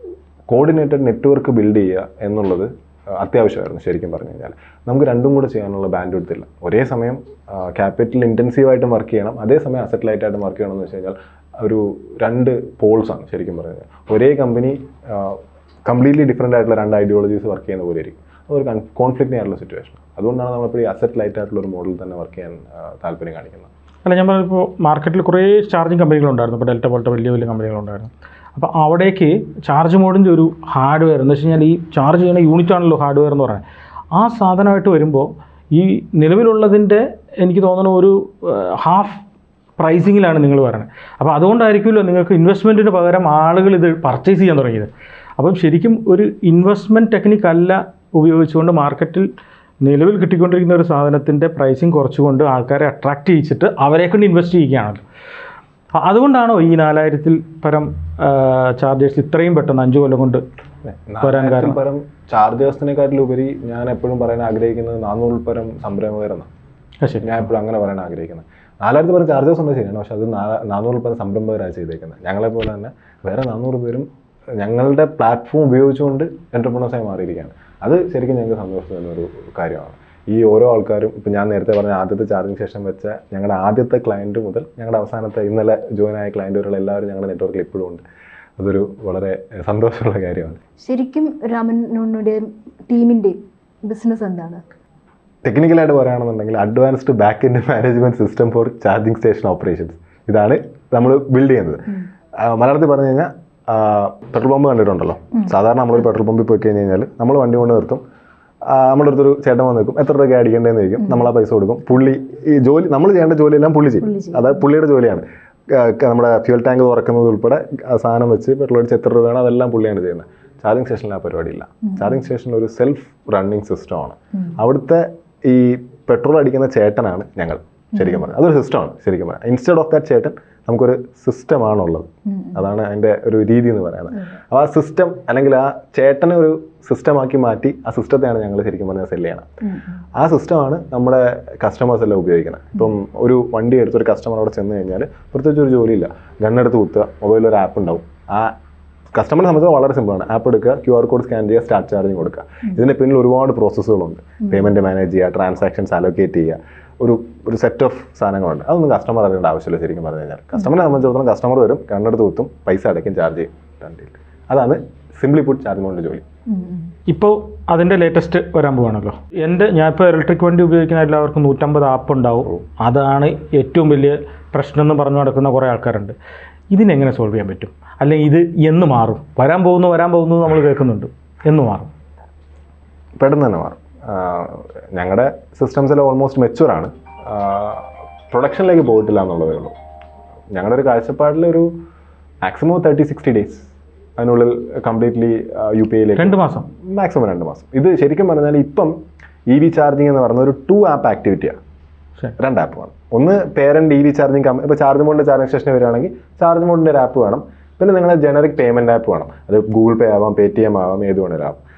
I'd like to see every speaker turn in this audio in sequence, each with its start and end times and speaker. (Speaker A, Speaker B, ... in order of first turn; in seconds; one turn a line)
Speaker A: 0.5-23.7
Speaker B: 24.0-39.2
Speaker B: 39.8-49.3
Speaker B: 49.8-55.0
Speaker B: 55.9-60.4
Speaker A: 60.9-66.5
Speaker B: 61.2-61.8
Speaker B: 67.0-67.4
Speaker A: 67.2-74.1
Speaker A: 74.6-88.0
Speaker A: 88.6-90.6
Speaker C: 90.8-94.6
Speaker A: 95.4-108.0
Speaker A: 108.6-139.5
Speaker C: 114.0-114.6
Speaker C: 132.3-132.6
Speaker C: 139.6-140.0
Speaker A: 140.2-148.6
Speaker A: 149.1-166.2
Speaker C: 166.5-166.9
Speaker B: 167.1-176.1
Speaker B: 176.7-181.9
Speaker A: 183.2-189.7
Speaker A: 190.5-191.7
Speaker A: 192.4-198.9
Speaker B: 196.2-196.7
Speaker A: 199.5-201.6
Speaker A: 202.4-211.6